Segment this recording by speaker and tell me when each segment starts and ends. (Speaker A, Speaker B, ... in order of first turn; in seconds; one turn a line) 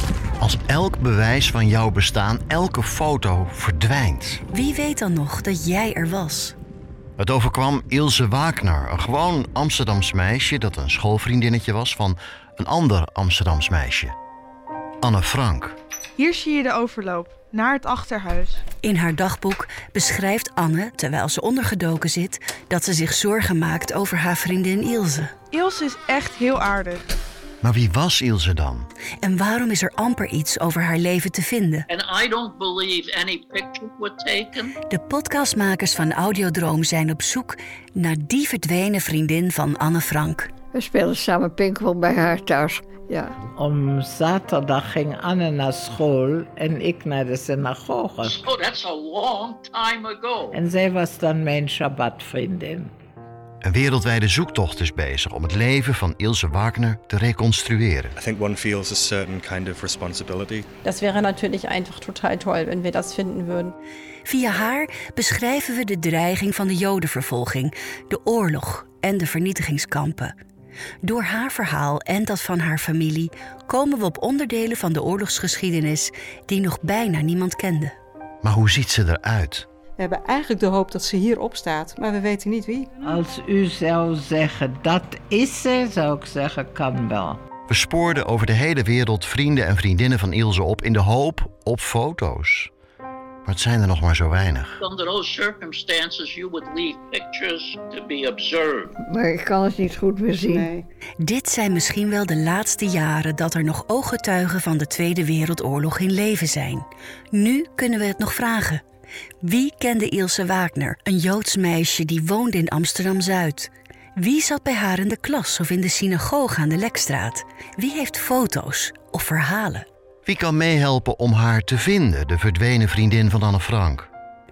Speaker A: 0.4-4.4
Speaker B: 4.5-6.5
Speaker A: 7.2-14.1
Speaker A: 15.0-15.8
Speaker C: 16.2-18.6
Speaker B: 18.8-25.3
Speaker C: 25.5-27.1
Speaker A: 27.6-28.9
Speaker B: 29.2-31.9
Speaker D: 31.9-34.7
Speaker B: 34.9-40.5
Speaker E: 40.7-43.4
Speaker F: 43.5-48.4
Speaker D: 48.2-50.6
Speaker F: 50.5-52.9
Speaker A: 53.6-58.1
Speaker G: 58.1-60.7
Speaker H: 60.8-63.7
Speaker B: 64.2-70.3
Speaker B: 71.0-77.9
Speaker A: 78.4-79.7
Speaker I: 80.0-82.9
Speaker F: 83.0-87.4
Speaker A: 87.7-92.7
Speaker A: 93.5-94.8
Speaker D: 94.8-98.9
Speaker E: 99.0-100.7
Speaker I: 100.5-100.8
Speaker B: 101.2-108.8
Speaker B: 109.4-119.8
Speaker A: 120.2-124.1